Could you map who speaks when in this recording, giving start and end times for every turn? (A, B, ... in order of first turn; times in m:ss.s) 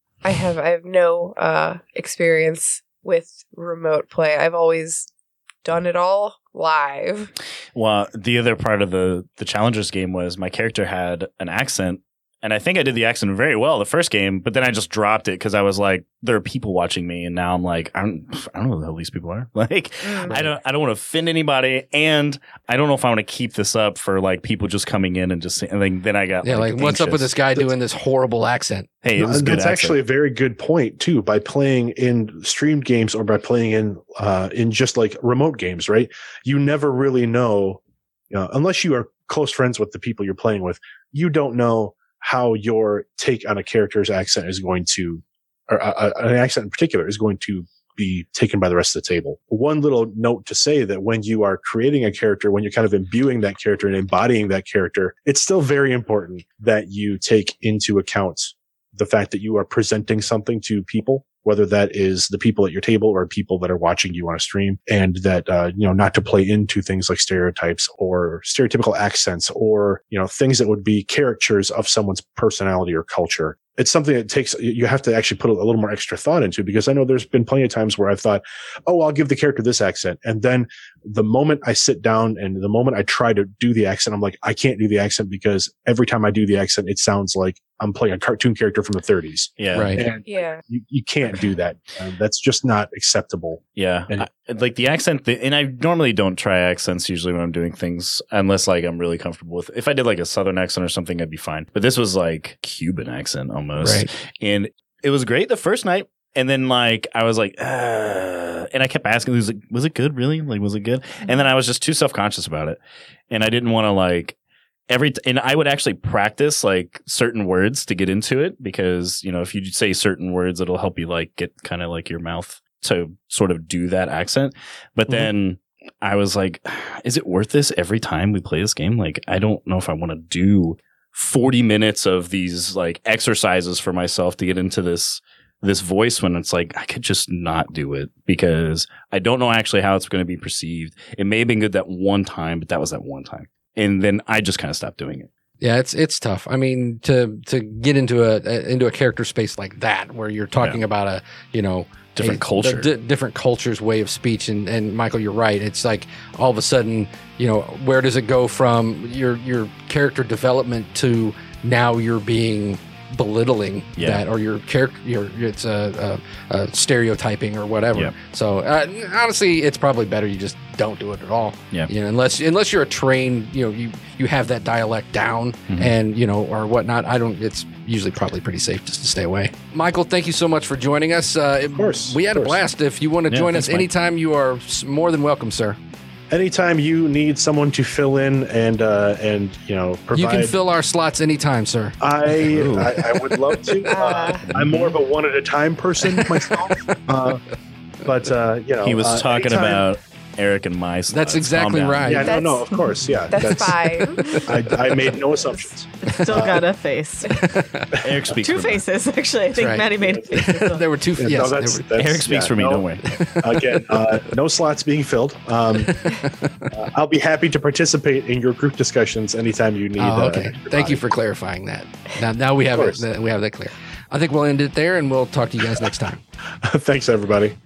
0:00.2-0:05.1 A
0:05.6-0:07.3 A
0:07.7-0:27.3 B
0:20.0-0:20.4 C
0:26.4-0:28.9 D
0:29.0-0:30.0 B
0:29.2-0:37.8 E
0:38.3-1:34.2 E
1:29.6-1:30.0 B
1:29.7-1:30.0 D
1:30.3-1:30.6 A
1:33.8-1:52.8 B
1:43.8-1:44.1 D
1:53.3-1:54.4 B
1:54.9-2:25.3 B
2:25.6-3:05.8 D
2:32.1-2:32.9 B
2:44.0-2:44.2 B
3:01.7-3:02.6 E
3:03.3-3:03.8 B
3:06.3-3:10.5 E
3:10.1-3:12.0 D
3:12.0-3:17.4 E
3:12.5-3:13.2 B
3:13.9-3:14.4 A
3:14.2-3:15.0 B
3:16.2-3:17.0 D
3:18.0-3:19.8 E
3:18.8-3:22.2 B
3:21.1-3:22.4 D
3:22.0-3:23.8 E
3:22.2-3:22.7 A
3:23.3-3:24.4 A
3:23.4-3:24.5 D
3:24.4-3:26.6 E
3:26.1-3:27.4 C
3:27.3-3:28.0 D
3:28.0-3:28.8 B
3:28.4-3:30.8 C
3:29.5-3:31.9 D
3:31.2-3:41.0 E
3:31.9-3:33.0 B
3:33.0-3:34.2 D
3:35.8-3:36.7 D
3:40.0-3:46.2 D
3:42.7-3:43.0 E
3:46.6-3:47.5 E